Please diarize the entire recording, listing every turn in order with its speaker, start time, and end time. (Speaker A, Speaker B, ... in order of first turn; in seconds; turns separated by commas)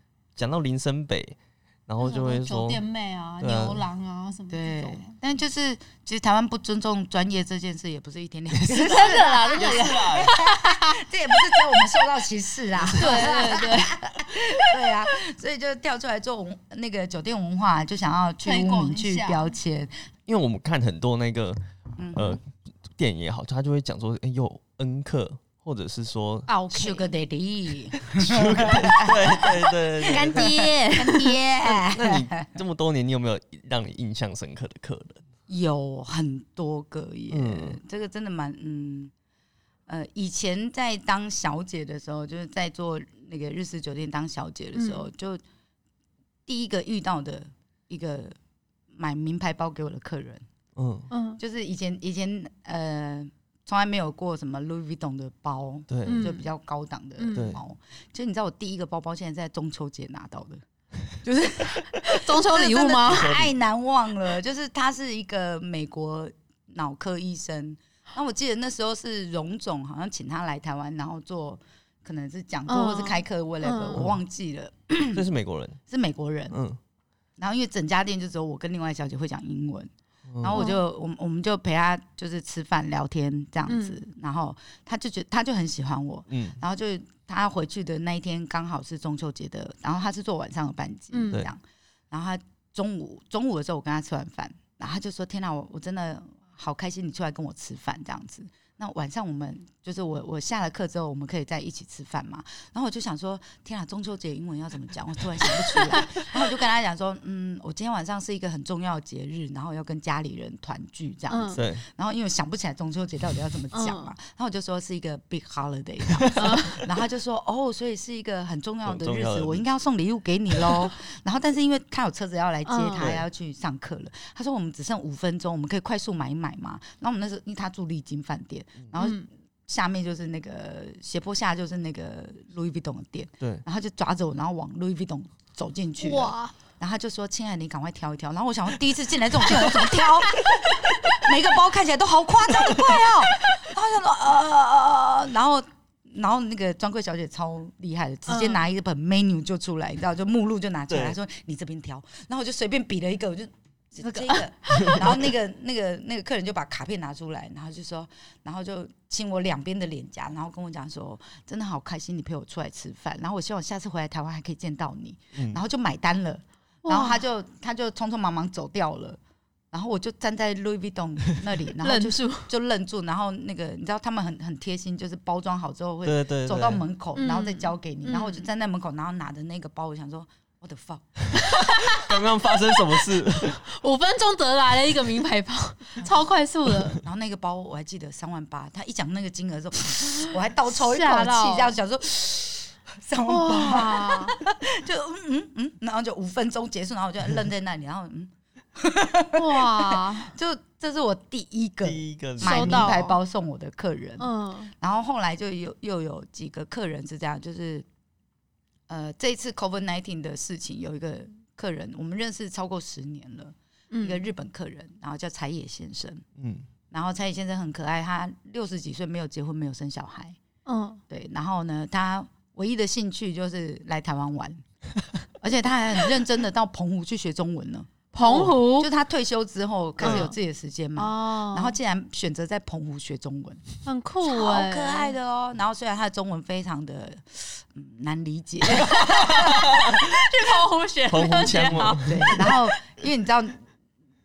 Speaker A: 0.3-2.8, Speaker B: 2.0-5.1, Speaker A: 3.4-3.9, Speaker C: 4.5-19.9, Speaker B: 8.7-11.0, Speaker A: 8.7-10.3, Speaker B: 11.5-11.8, Speaker A: 12.8-13.2, Speaker B: 12.9-14.6, Speaker B: 18.4-19.5, Speaker A: 20.2-21.6, Speaker C: 22.0-22.4, Speaker A: 22.1-26.5, Speaker B: 26.5-27.1, Speaker C: 26.7-32.5, Speaker A: 28.1-30.8, Speaker B: 30.0-31.3, Speaker A: 31.6-35.2, Speaker C: 35.5-39.1, Speaker A: 37.3-37.8, Speaker C: 39.9-45.4, Speaker B: 44.7-45.0, Speaker C: 46.5-48.3, Speaker C: 48.9-50.4, Speaker A: 50.7-51.1, Speaker B: 51.1-51.4, Speaker C: 51.4-60.6, Speaker A: 55.9-56.3, Speaker B: 56.0-56.4, Speaker B: 57.2-57.5, Speaker A: 57.3-57.6, Speaker C: 61.2-75.2, Speaker B: 62.1-63.3, Speaker A: 63.1-63.5, Speaker B: 72.7-74.0, Speaker A: 73.9-74.2, Speaker A: 75.1-75.8, Speaker C: 75.9-76.6, Speaker A: 76.5-76.8, Speaker C: 77.4-169.2, Speaker A: 80.3-80.6, Speaker B: 80.5-80.8, Speaker B: 83.7-84.0, Speaker A: 86.3-86.6, Speaker B: 91.1-91.4, Speaker B: 111.3-111.6, Speaker A: 111.5-111.8, Speaker B: 113.7-114.1, Speaker B: 116.4-116.8, Speaker A: 118.8-119.6, Speaker A: 120.5-120.9, Speaker B: 122.7-123.1, Speaker A: 123.0-123.2, Speaker B: 129.0-129.2, Speaker B: 136.0-136.5, Speaker B: 139.5-141.0, Speaker B: 148.3-148.6, Speaker A: 150.9-151.2, Speaker B: 154.0-155.1, Speaker A: 154.7-155.1, Speaker B: 166.8-167.2, Speaker C: 169.7-181.1, Speaker B: 171.8-172.5, Speaker A: 176.0-176.8, Speaker B: 177.2-178.5, Speaker B: 181.4-187.0, Speaker A: 181.8-183.6, Speaker C: 187.0-204.3, Speaker B: 190.6-191.8, Speaker B: 193.3-194.3, Speaker B: 199.3-200.3, Speaker A: 201.8-203.0, Speaker B: 202.4-203.2, Speaker B: 204.2-204.7, Speaker C: 204.8-207.8, Speaker C: 208.9-216.2, Speaker B: 213.9-214.2, Speaker A: 216.3-216.7, Speaker C: 216.9-220.4, Speaker B: 220.7-221.0, Speaker C: 221.1-224.6, Speaker C: 225.4-233.7, Speaker B: 228.1-228.9, Speaker A: 230.0-230.3, Speaker B: 230.0-230.3, Speaker B: 230.9-231.8, Speaker B: 233.8-235.1, Speaker C: 234.2-239.7, Speaker B: 238.8-242.6, Speaker A: 239.3-239.9, Speaker A: 241.1-242.4, Speaker C: 242.0-243.6